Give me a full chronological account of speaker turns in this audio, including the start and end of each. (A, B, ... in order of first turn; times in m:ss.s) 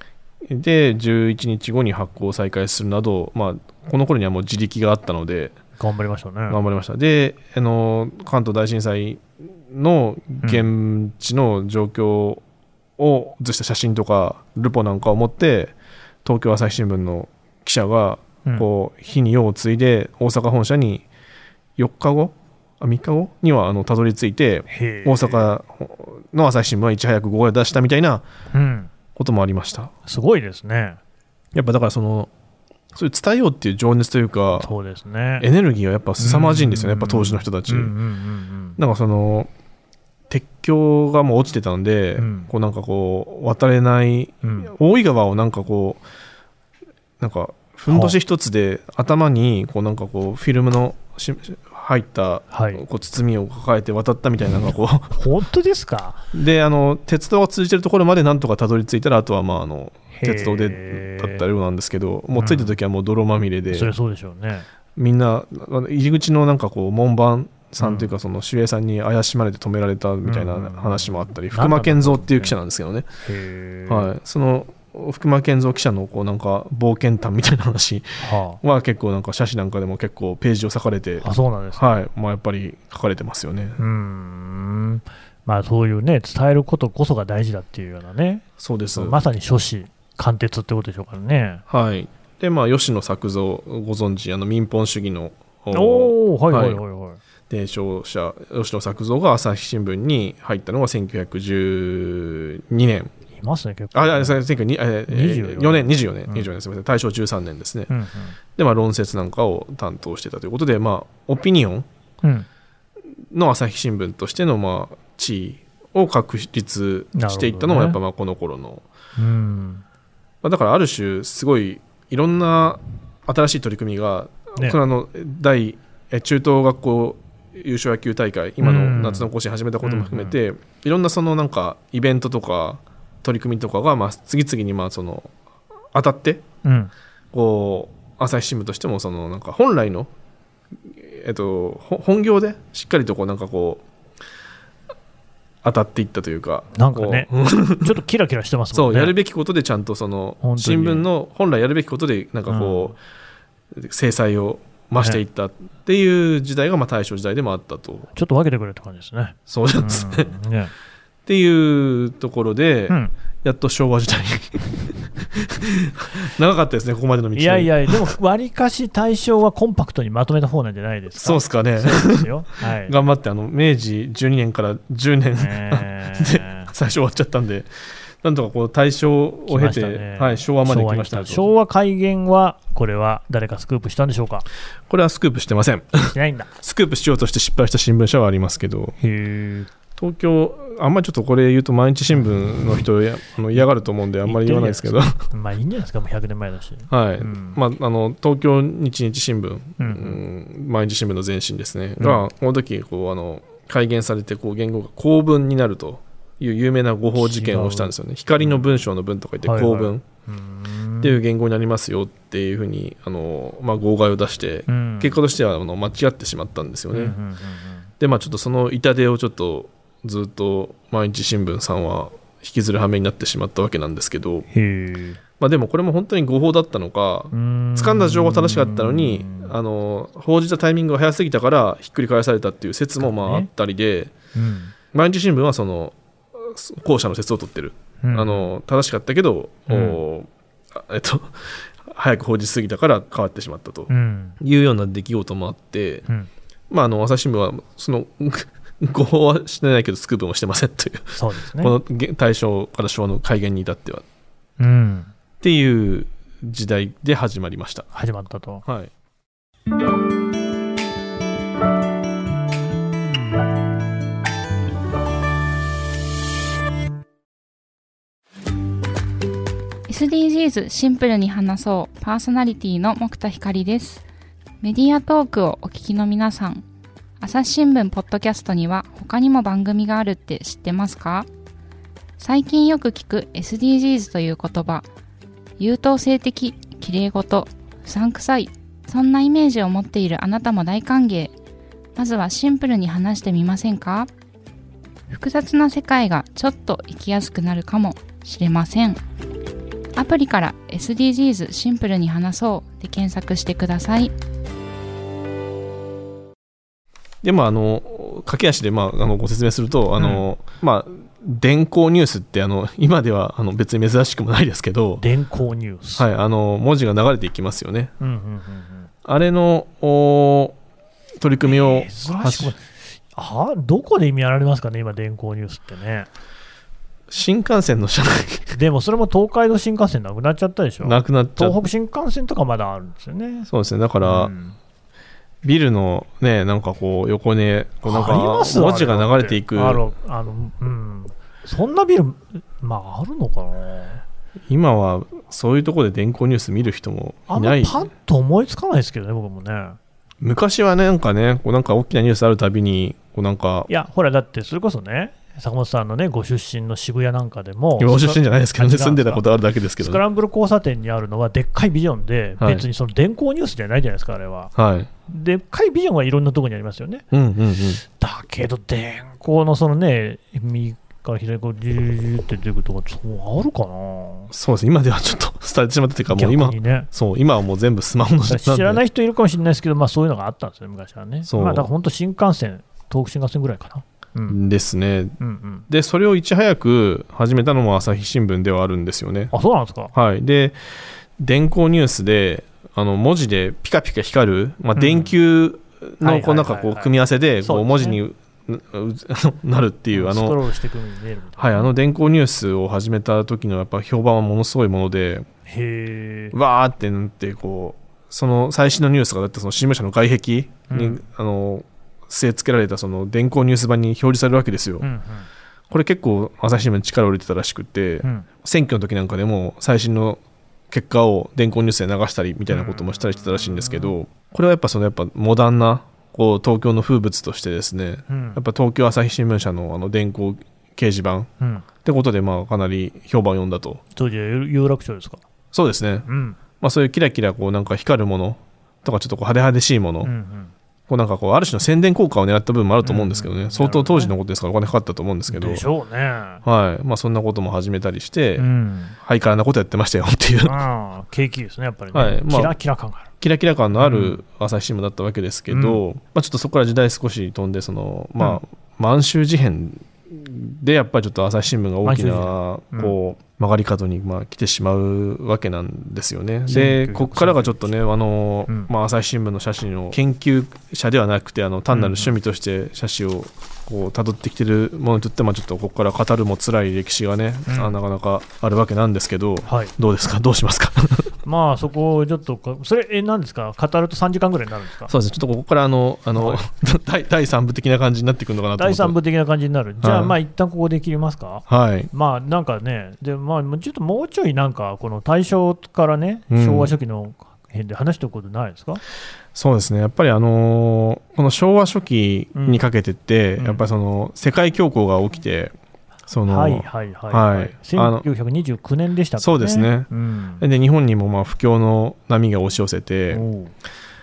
0:00.5-0:05.6 A
0:05.8-0:06.6 B
0:06.5-0:12.4 A
0:13.0-0:21.1 A
0:21.8-0:28.2 A
0:24.7-0:25.5 B
0:28.5-0:28.9 B
0:29.2-0:29.9 A
0:30.1-0:31.0 B
0:31.5-0:32.3 A
0:32.9-0:34.7 A
0:34.6-0:35.5 B
0:35.4-0:37.9 A
0:36.2-0:38.8 B
0:38.8-0:39.5 A
0:40.3-0:46.0 A
0:42.2-0:42.5 B
0:44.4-0:44.7 B
0:47.2-0:55.2 A
0:47.9-0:48.2 B
0:52.5-0:52.8 B
0:55.1-0:56.3 B
0:56.3-1:03.9 A
1:00.1-1:01.4 B
1:02.4-1:02.8 B
1:03.7-1:04.7 B
1:05.0-1:13.1 A
1:07.8-1:08.1 B
1:10.2-1:12.6 B
1:13.2-1:14.1 B
1:13.9-1:23.8 A
1:18.2-1:18.6 B
1:21.2-1:21.9 B
1:23.8-1:31.6 B
1:28.6-1:29.2 A
1:31.7-1:36.8 A
1:35.7-1:37.2 B
1:37.5-1:43.1 A
1:43.4-1:44.4 B
1:43.9-1:47.9 A
1:45.1-1:46.5 B
1:47.9-1:48.4 B
1:48.6-1:51.9 A
1:52.2-1:52.5 B
1:53.3-1:58.8 A
1:57.1-1:58.0 B
1:59.2-1:59.8 B
2:00.4-2:15.3 A
2:08.6-2:09.3 B
2:09.8-2:10.4 B
2:15.9-2:16.4 A
2:16.6-2:16.9 B
2:17.3-2:20.1 A
2:20.9-2:23.8 A
2:25.6-2:28.0 A
2:26.8-2:29.2 B
2:28.7-2:33.0 A
2:30.4-2:31.1 B
2:32.5-2:33.0 B
2:33.7-2:38.1 A
2:35.0-2:35.2 B
2:38.2-2:40.7 B
2:39.5-2:40.3 A
2:41.3-2:48.1 A
2:47.4-2:53.0 B
2:51.2-2:52.3 A
2:52.8-2:57.7 A
2:55.4-2:56.7 B
2:58.2-3:01.5 A
2:59.5-3:04.5 B
3:04.9-3:09.0 A
3:06.0-3:06.5 B
3:09.0-3:09.7 B
3:10.0-3:15.2 A
3:14.2-3:17.6 B
3:16.9-3:30.0 A
3:19.8-3:20.2 B
3:27.2-3:28.6 B
3:29.4-3:31.2 B
3:31.0-3:37.2 A
3:34.7-3:35.2 B
3:36.9-3:37.9 B
3:38.0-3:44.5 A
3:44.5-3:45.2 B
3:45.4-3:54.1 A
3:47.3-3:49.6 B
3:53.0-3:53.5 B
3:54.3-3:54.7 B
3:54.9-4:06.0 A
3:58.0-3:58.5 B
3:59.7-4:00.0 B
4:03.9-4:04.4 B
4:06.7-4:14.0 A
4:11.2-4:11.8 B
4:14.6-4:15.1 B
4:15.4-4:17.9 A
4:17.9-4:18.6 B
4:18.6-4:18.9 A
4:29.9-4:34.0 C
4:34.6-4:36.6 C
4:37.2-4:41.3 C
4:42.2-4:44.9 C
4:45.6-4:51.3 C
4:52.0-4:54.1 C
4:55.1-4:59.0 C
5:00.0-5:04.1 C
5:07.2-5:15.0 A
5:10.0-5:10.3 B
5:15.0-5:16.1 B
5:16.0-5:17.9 A
5:18.0-5:18.9 B
5:19.0-5:20.6 A
5:21.2-5:22.5 A
5:21.4-5:26.1 B
5:27.1-5:28.6 A
5:28.5-5:33.5 B
5:30.8-5:31.6 A
5:33.5-5:34.3 A
5:34.0-5:34.6 B
5:35.4-5:39.8 A
5:37.8-5:44.0 B
5:44.5-5:47.8 A
5:47.3-5:49.8 B
5:50.2-5:53.7 A
5:53.7-5:59.2 B
5:57.8-6:00.0 A
5:59.8-6:04.5 B
6:02.4-6:02.7 A
6:04.6-6:04.9 A
6:05.1-6:07.0 B
6:07.1-6:07.8 A
6:07.8-6:14.3 B
6:14.3-6:18.8 A
6:16.1-6:16.9 B
6:18.3-6:24.4 B
6:21.3-6:21.7 A
6:24.3-6:25.2 A
6:25.2-6:25.7 B
6:25.7-6:29.3 A
6:29.3-6:29.9 B
6:29.9-6:30.6 A
6:31.2-6:40.4 A
6:34.8-6:35.2 B
6:36.0-6:38.0 B
6:39.9-6:41.7 B
6:41.4-6:45.3 A
6:45.5-6:46.4 B
6:46.3-6:54.9 A
6:50.7-6:51.0 B
6:54.8-6:55.3 B
6:55.7-7:11.3 A
6:58.0-6:58.3 B
7:02.5-7:03.9 B
7:08.1-7:08.4 B
7:11.4-7:11.7 B
7:11.8-7:13.8 A
7:14.0-7:15.2 B
7:15.5-7:16.1 A
7:16.1-7:16.4 B
7:16.6-7:20.1 A
7:20.0-7:20.5 B
7:20.9-7:25.6 A
7:22.8-7:24.1 B
7:25.3-7:26.4 B
7:26.4-7:28.5 A
7:28.4-7:29.0 B
7:29.0-7:30.6 A
7:30.4-7:33.1 B
7:31.9-7:32.6 A
7:33.2-8:01.2 A
7:33.8-7:34.2 B
7:35.5-7:35.8 B
7:41.8-7:43.0 B
7:46.5-7:47.6 B
7:51.7-7:52.1 B
7:57.5-7:57.8 B
7:59.4-7:59.7 B
8:01.2-8:04.9 B
8:04.9-8:09.0 A
8:06.2-8:06.4 B
8:08.6-8:18.8 B
8:09.8-8:10.2 A
8:11.5-8:11.9 A
8:16.3-8:16.8 A
8:19.4-8:25.5 A
8:22.4-8:22.6 B
8:26.1-8:28.0 A
8:26.3-8:30.4 B
8:29.2-8:29.9 A
8:30.4-8:33.2 A
8:33.1-8:33.5 B